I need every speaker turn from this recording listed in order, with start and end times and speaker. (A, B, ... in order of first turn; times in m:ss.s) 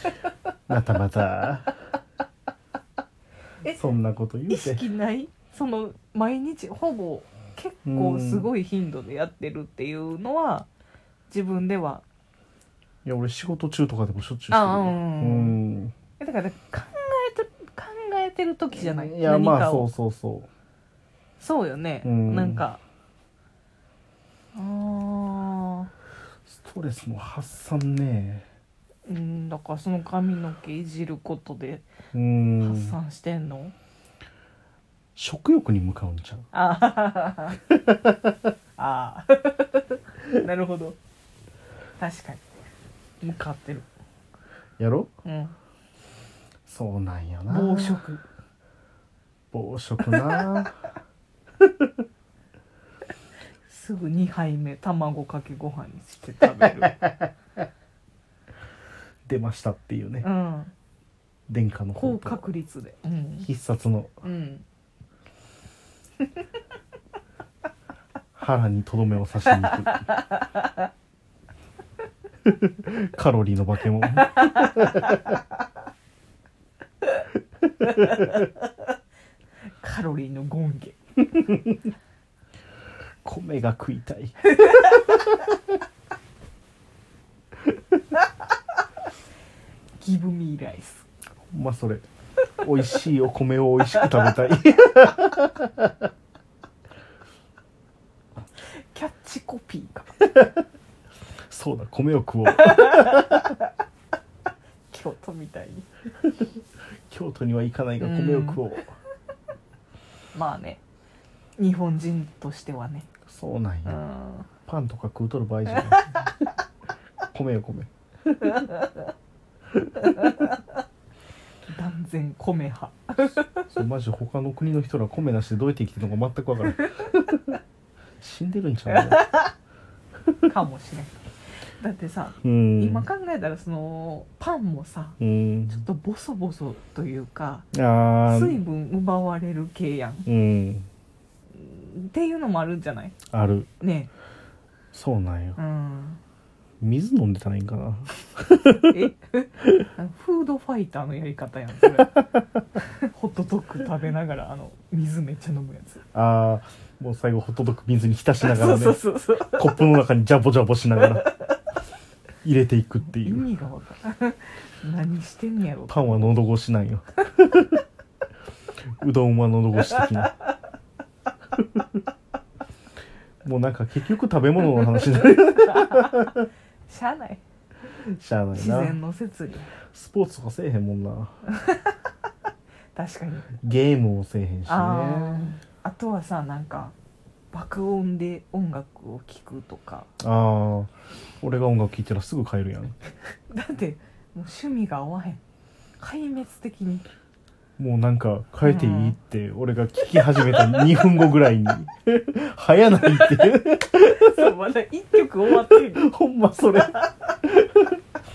0:00.7-0:01.7 A
0:03.6-0:04.8 A
0:04.5-0:10.7 B
0:07.8-0:08.5 A
0:11.3-0:12.0 B
0:13.0-0:15.9 A
0:14.5-0:15.6 B
0:16.2-0:19.9 B
0:18.7-0:20.5 A
0:21.4-0:22.8 B
0:22.0-0:22.6 A
0:24.5-0:25.9 B
0:26.4-0:28.4 A
0:29.0-0:31.9 B
0:32.1-0:33.0 A
0:32.6-0:33.7 B
0:35.2-0:36.5 A
0:36.5-0:37.6 B
0:37.7-0:38.3 A
0:38.8-0:41.0 B
0:42.0-0:42.4 B
0:43.2-0:43.9 B
0:44.8-0:45.1 A
0:45.2-0:45.5 B
0:46.6-0:48.0 A
0:47.5-0:48.2 B
0:49.5-0:50.8 A
0:51.6-0:51.9 A
0:53.7-0:57.0 B
0:56.6-0:57.1 A
0:59.2-1:00.2 A
1:00.2-1:00.7 B
1:01.5-1:02.4 A
1:02.0-1:03.5 B
1:03.4-1:04.1 A
1:04.2-1:04.6 B
1:08.4-1:10.0 A
1:09.5-1:10.8 B
1:12.4-1:15.1 A
1:14.2-1:15.2 B
1:17.8-1:18.6 B
1:19.8-1:21.0 B
1:21.4-1:21.8 A
1:23.2-1:24.4 A
1:24.5-1:25.1 B
1:30.0-1:31.0 B
1:31.5-1:32.0 A
1:32.6-1:35.9 A
1:38.7-1:40.2 B
1:41.5-1:43.5 A
1:42.6-1:43.6 B
1:44.9-1:45.9 B
1:47.1-1:48.9 A
1:48.0-1:48.6 B
1:50.3-1:50.8 B
1:51.6-1:53.1 B
1:53.3-1:54.0 A
1:53.8-1:54.5 B
1:54.7-1:56.1 A
1:57.3-1:58.5 A
1:58.4-1:59.0 B
2:00.0-2:00.6 B
2:01.7-2:03.6 B
2:03.2-2:07.6 A
2:08.2-2:09.2 A
2:08.9-2:09.5 B
2:10.5-2:11.2 B
2:11.8-2:15.2 B
2:12.4-2:13.1 A
2:15.2-2:15.8 A
2:15.7-2:17.7 B
2:17.7-2:18.6 A
2:18.2-2:20.3 B
2:20.2-2:20.9 A
2:21.5-2:23.2 B
2:23.3-2:23.7 A
2:23.8-2:24.1 B
2:24.9-2:25.6 A
2:25.6-2:26.2 B
2:26.8-2:29.0 A
2:28.9-2:32.2 B
2:32.8-2:36.0 B
2:36.1-2:41.3 A
2:38.4-2:39.8 B
2:41.0-2:41.5 B
2:42.4-2:43.4 A
2:43.1-2:46.3 B
2:45.9-2:47.8 A
2:49.0-2:50.4 A
2:51.6-2:51.8 A
2:53.4-2:56.4 A
2:55.7-2:56.3 B
2:56.9-2:57.4 B
2:58.0-2:59.0 A
2:58.5-2:59.7 B
2:59.9-3:01.4 A
3:01.5-3:02.0 B
3:02.9-3:03.6 B
3:03.6-3:05.5 A
3:04.7-3:06.9 B
3:07.5-3:10.1 B
3:10.2-3:13.0 A
3:13.5-3:15.4 B
3:16.0-3:17.0 B
3:17.8-3:24.5 A
3:18.6-3:19.2 B
3:20.6-3:20.9 B
3:23.0-3:26.1 B
3:25.5-3:28.0 A
3:26.7-3:27.1 B